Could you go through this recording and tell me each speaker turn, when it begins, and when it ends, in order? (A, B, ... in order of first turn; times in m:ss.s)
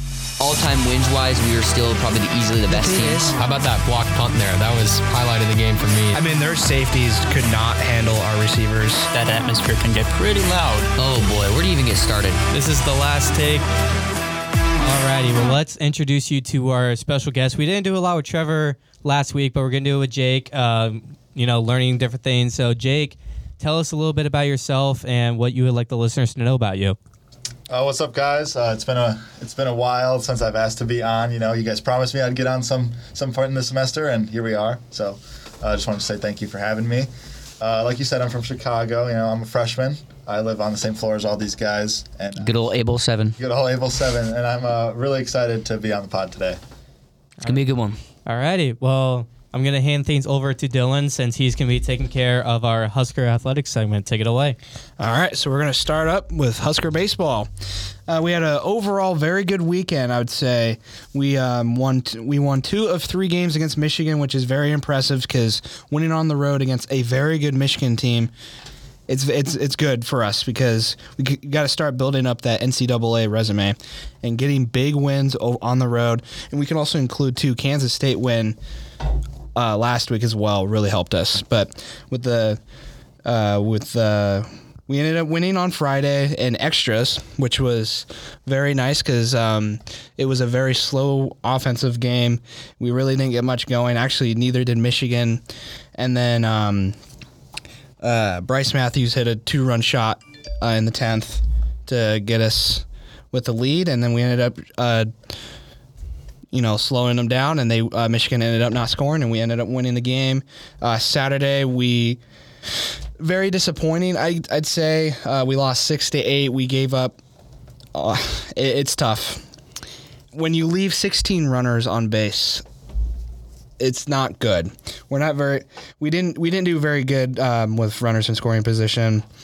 0:00.4-0:03.3 A
0:02.8-0:03.2 B
0:03.4-0:06.2 C
0:06.1-0:09.1 D
0:09.1-0:10.9 B
0:11.0-0:12.4 A
0:12.5-0:13.6 E
0:14.8-0:27.0 E
0:27.7-0:37.1 F
0:37.6-0:42.7 F
0:42.4-0:43.4 A
0:43.4-0:46.6 F
0:47.4-0:48.0 A
0:48.2-0:54.6 E
0:55.0-0:57.5 D
0:58.1-1:08.3 D
1:09.1-1:18.6 D
1:19.6-1:22.6 D
1:23.2-1:35.4 D
1:36.0-1:37.0 D
1:38.0-1:45.1 D
1:46.5-1:57.2 D
1:58.0-1:59.5 D
2:00.3-2:02.6 D
2:03.8-2:09.3 D